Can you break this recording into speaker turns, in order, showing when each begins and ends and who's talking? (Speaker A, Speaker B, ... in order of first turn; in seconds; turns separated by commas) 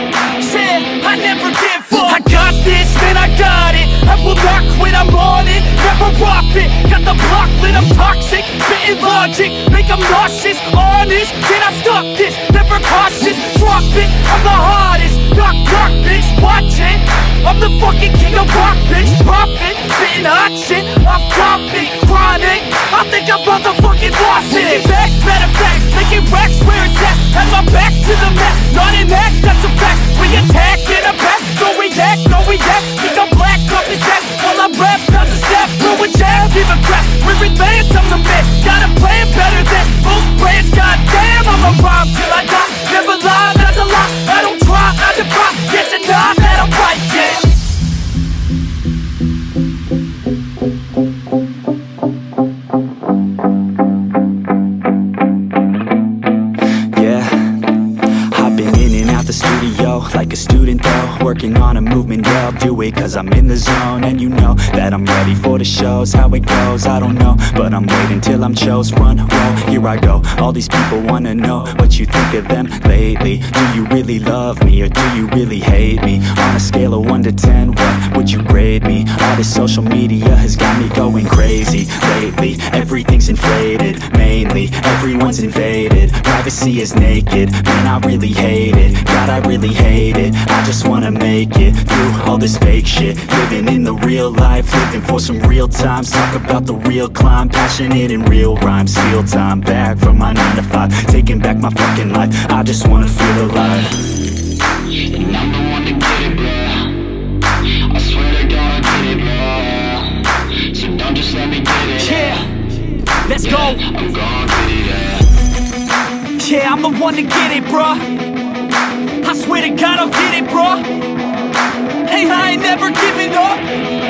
Speaker A: 0.4-47.5, Speaker B: 56.9-103.9, Speaker C: 105.4-106.2, Speaker C: 108.2-109.4, Speaker C: 110.9-111.8, Speaker A: 111.8-114.1, Speaker C: 114.2-114.9, Speaker A: 116.4-118.2, Speaker A: 119.2-120.9, Speaker A: 122.0-123.8